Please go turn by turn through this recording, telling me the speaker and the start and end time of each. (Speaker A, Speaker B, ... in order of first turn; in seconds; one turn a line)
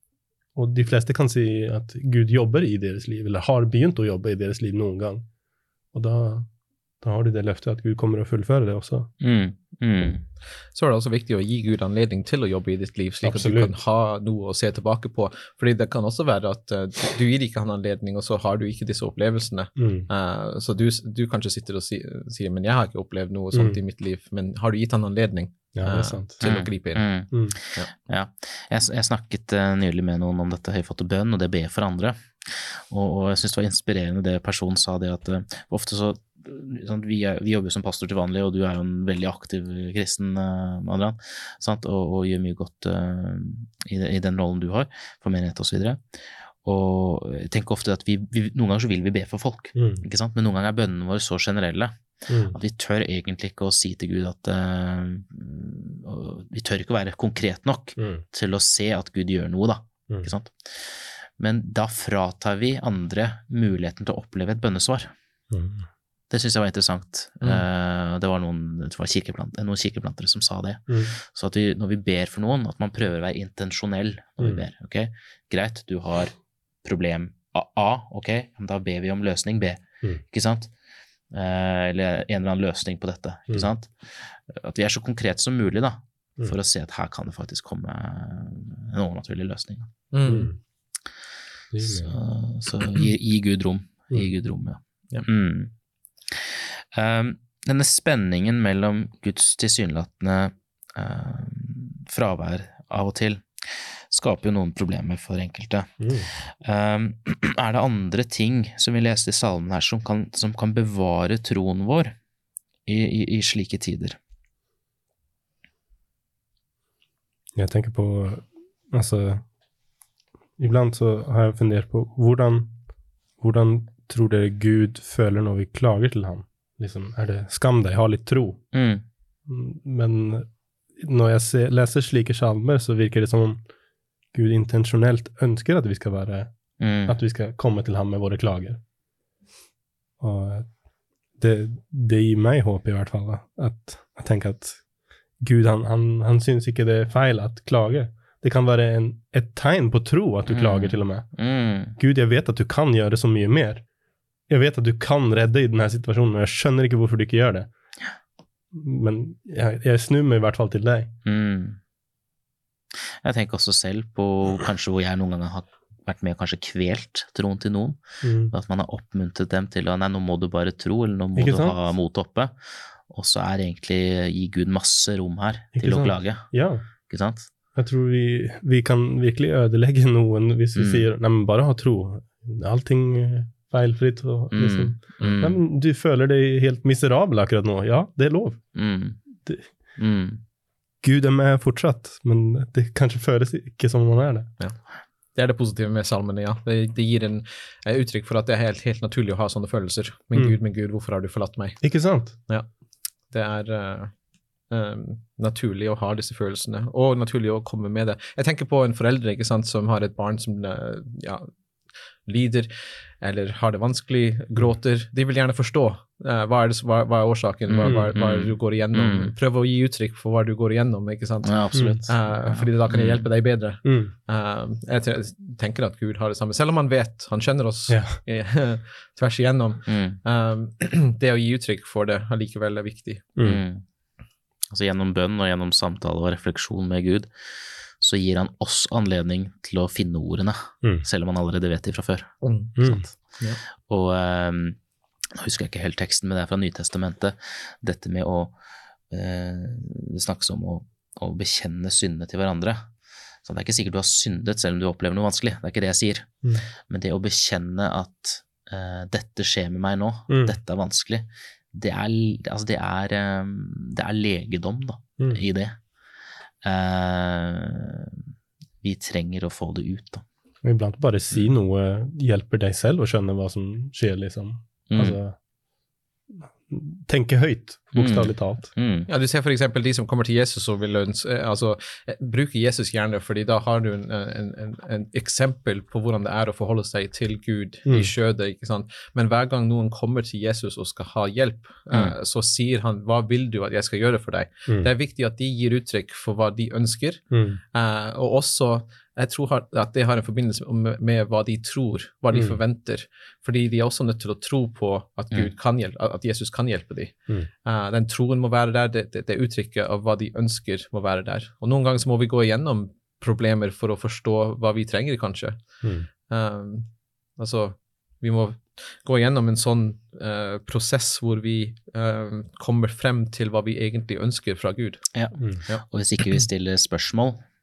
Speaker A: 0.6-5.3
Speaker A: 5.9-6.5
Speaker A: 7.0-9.1
Speaker B: 9.2-10.2
Speaker C: 10.7-27.1
Speaker A: 13.2-13.7
Speaker A: 19.8-20.1
Speaker A: 23.5-23.8
Speaker A: 25.8-26.4
Speaker B: 26.4-51.9
Speaker A: 49.8-50.0
Speaker A: 52.3-52.6
Speaker B: 52.5-65.1
Speaker A: 58.0-58.2
Speaker A: 65.5-65.9
Speaker B: 66.3-80.7
Speaker A: 70.9-71.1
Speaker B: 81.3-89.9
Speaker C: 90.1-90.5
Speaker A: 90.2-90.6
Speaker A: 91.7-92.1
Speaker B: 91.8-95.7
Speaker B: 96.3-105.9
Speaker A: 106.0-106.3
Speaker B: 106.6-112.2
Speaker B: 112.9-114.2
Speaker A: 117.5-119.5
Speaker A: 120.6-122.8
Speaker A: 123.4-128.6
Speaker B: 128.7-129.0
Speaker A: 129.5-133.6
Speaker A: 134.3-136.5
Speaker B: 136.8-137.2
Speaker A: 137.1-138.8
Speaker A: 140.2-140.7
Speaker A: 141.4-144.8
Speaker A: 145.4-151.3
Speaker B: 150.5-152.0
Speaker A: 152.0-153.8
Speaker A: 154.5-157.7
Speaker A: 158.7-161.1
Speaker B: 161.2-161.8
Speaker B: 163.2-172.6
Speaker A: 168.2-168.5
Speaker A: 171.3-171.8
Speaker B: 173.1-176.5
Speaker A: 175.7-176.8
Speaker B: 177.1-177.5
Speaker A: 177.7-188.7
Speaker B: 180.8-181.1
Speaker B: 184.5-185.6
Speaker B: 188.8-189.2
Speaker B: 190.0-190.4
Speaker A: 191.0-194.5
Speaker C: 195.3-201.8
Speaker A: 201.8-202.4
Speaker C: 203.3-204.2
Speaker C: 204.7-211.5
Speaker C: 212.2-221.5
Speaker B: 217.7-219.3
Speaker B: 221.4-223.3
Speaker A: 221.7-222.0
Speaker C: 222.1-233.3
Speaker A: 223.8-224.1
Speaker A: 227.9-228.2
Speaker B: 229.9-230.2
Speaker A: 233.4-233.6
Speaker B: 233.4-233.8
Speaker B: 234.7-237.3
Speaker B: 238.0-243.2
Speaker C: 242.4-242.8
Speaker A: 242.8-243.0
Speaker B: 243.9-244.8
Speaker B: 245.4-248.5
Speaker B: 249.1-252.9
Speaker B: 253.4-256.3
Speaker B: 256.9-265.8
Speaker A: 260.3-260.6
Speaker B: 266.6-268.2
Speaker B: 268.8-270.2
Speaker A: 270.6-275.4
Speaker B: 274.9-275.2
Speaker A: 276.5-278.7
Speaker B: 277.9-279.1
Speaker C: 279.1-325.1
Speaker A: 297.3-297.6
Speaker A: 302.3-302.6
Speaker A: 315.8-316.1
Speaker B: 325.1-327.4